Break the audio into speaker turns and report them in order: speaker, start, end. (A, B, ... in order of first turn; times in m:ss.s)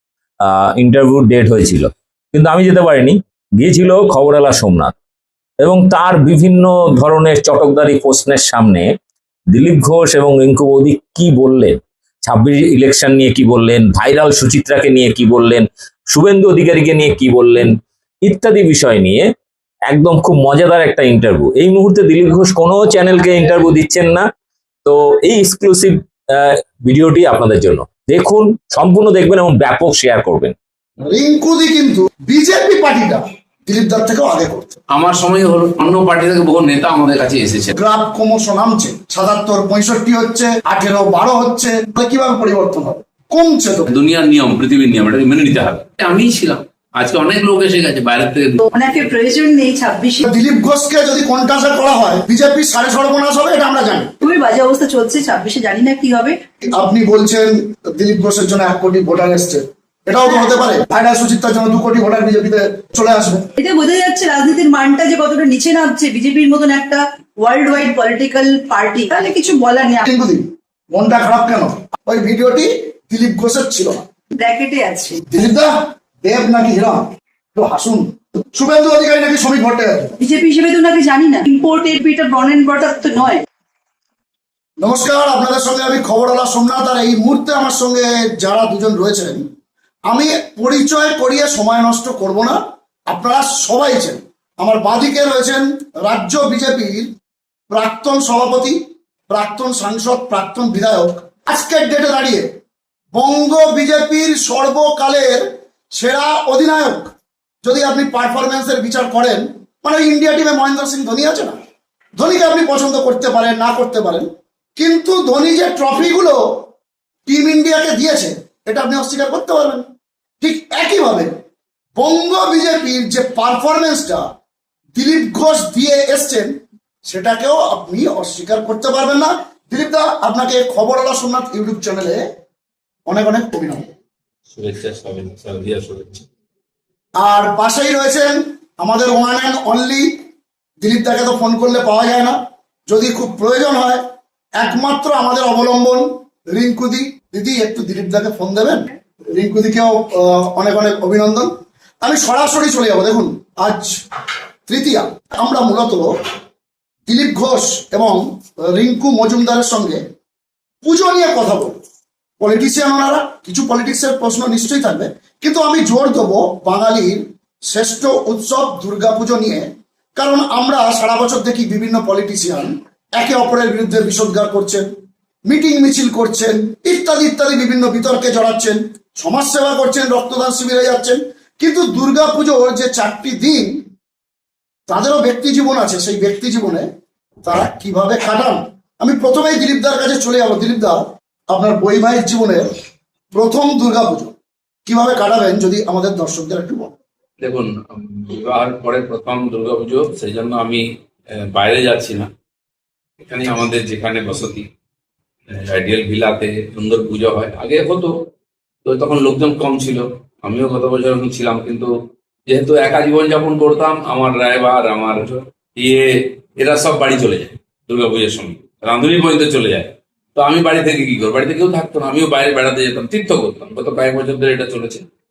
0:00.5-0:04.9 A
0:05.6-0:08.9 A
0:09.5-0:17.8 A
0:18.3-0:19.2 A
0:19.9-0:24.3 A
0:24.8-0:30.6 A
0:31.0-0:34.7 B
0:34.9-0:37.8 C
0:37.8-0:43.9 B
0:43.9-0:48.7 C
0:48.7-0:50.2 D
0:50.2-0:54.1 B
0:54.2-0:56.4 D
0:56.7-1:03.5 B
1:00.2-1:00.6 D
1:03.6-1:10.1 D
1:10.1-1:14.0 B
1:14.4-1:15.2 D
1:15.3-1:20.1 B
1:20.2-1:23.4 D
1:24.8-1:29.4 B
1:30.1-1:37.1 B
1:37.7-1:38.8 B
1:39.3-1:42.5 B
1:43.1-1:47.1 B
1:47.6-1:51.6 B
1:52.2-1:56.4 B
1:57.3-1:59.9 B
2:00.4-2:01.4 B
2:02.0-2:04.3 B
2:05.0-2:12.2 B
2:13.1-2:13.9 B
2:14.5-2:16.3 C
2:17.2-2:20.2 B
2:20.8-2:24.0 B
2:24.6-2:34.0 B
2:34.7-2:36.2 B
2:37.1-2:40.0 B
2:40.8-2:41.8 B
2:42.4-2:54.9 B
2:55.5-3:03.8 B
3:04.9-3:06.9 B
3:07.4-3:12.7 B
3:13.3-3:14.3 B
3:14.9-3:16.9 B
3:17.4-3:20.8 C
3:21.4-3:22.3 C
3:23.2-3:24.7 C
3:25.5-3:28.2 C
3:28.8-3:31.9 C
3:32.5-3:45.1 C